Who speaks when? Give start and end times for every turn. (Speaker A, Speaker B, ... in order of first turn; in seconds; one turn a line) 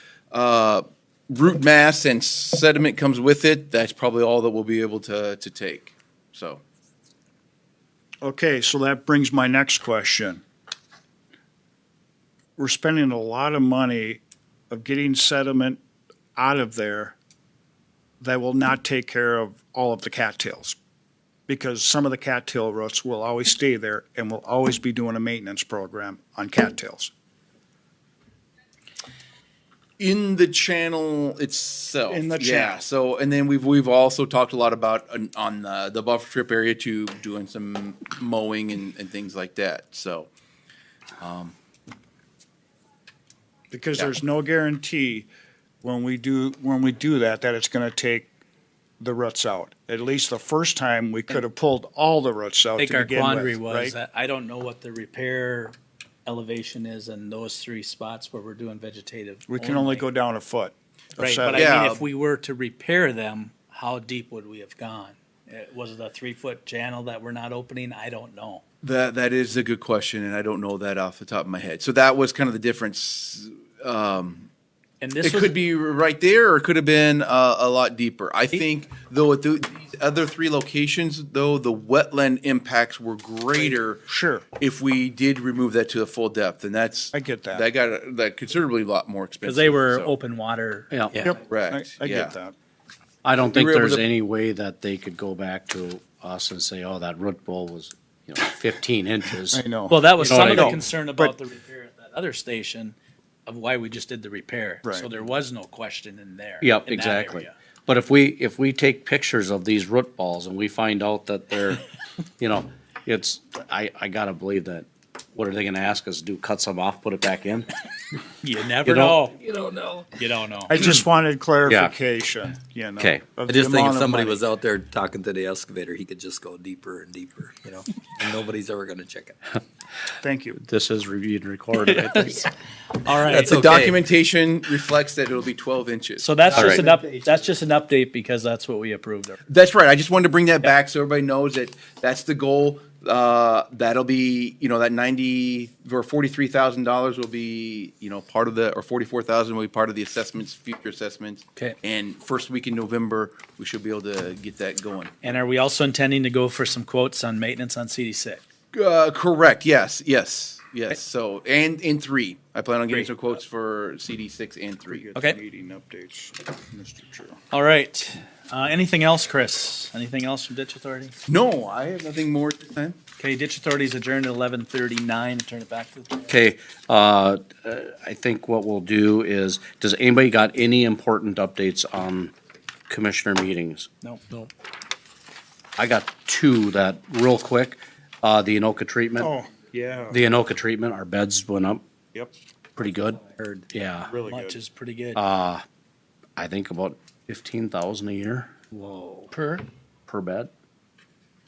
Speaker A: 0.3-6.6
Speaker B: 8.2-10.4
Speaker B: 12.6-15.8
Speaker B: 16.4-17.1
Speaker B: 18.2-20.8
Speaker B: 21.5-27.1
Speaker A: 30.0-40.3
Speaker B: 32.1-32.8
Speaker A: 41.2-41.5
Speaker B: 43.7-45.3
Speaker B: 45.8-48.3
Speaker B: 49.0-53.9
Speaker C: 52.8-60.0
Speaker B: 59.5-61.8
Speaker C: 61.2-68.6
Speaker A: 61.5-62.0
Speaker A: 68.8-74.5
Speaker C: 75.0-75.5
Speaker A: 75.2-90.1
Speaker B: 84.1-84.4
Speaker B: 87.1-87.7
Speaker C: 89.4-90.9
Speaker D: 90.9-91.2
Speaker B: 91.2-92.5
Speaker A: 91.4-92.3
Speaker D: 93.2-99.6
Speaker A: 93.4-94.0
Speaker B: 99.5-101.3
Speaker C: 99.9-107.5
Speaker D: 100.2-100.8
Speaker D: 106.6-111.8
Speaker D: 112.4-117.7
Speaker C: 118.4-119.4
Speaker D: 118.8-119.2
Speaker E: 119.4-120.2
Speaker C: 120.2-120.8
Speaker B: 120.7-124.4
Speaker D: 121.7-121.9
Speaker D: 123.0-123.3
Speaker E: 123.4-129.4
Speaker B: 130.2-130.6
Speaker D: 130.6-132.5
Speaker C: 131.9-132.1
Speaker C: 133.0-133.9
Speaker A: 133.2-136.3
Speaker E: 133.5-133.9
Speaker C: 136.2-139.4
Speaker D: 136.5-136.9
Speaker E: 136.6-137.2
Speaker A: 139.5-155.1
Speaker C: 155.2-158.4
Speaker A: 158.7-165.1
Speaker B: 164.9-167.4
Speaker C: 167.5-171.1
Speaker A: 171.3-173.0
Speaker C: 173.2-176.3
Speaker D: 176.3-182.3
Speaker D: 182.9-183.9
Speaker C: 184.0-184.4
Speaker D: 185.8-189.3
Speaker B: 189.2-190.2
Speaker D: 190.1-191.8
Speaker D: 192.8-194.1
Speaker E: 193.3-193.6
Speaker B: 194.1-194.6
Speaker C: 194.2-195.2
Speaker D: 195.1-195.6
Speaker D: 196.4-198.6
Speaker C: 198.7-199.6
Speaker D: 200.1-200.5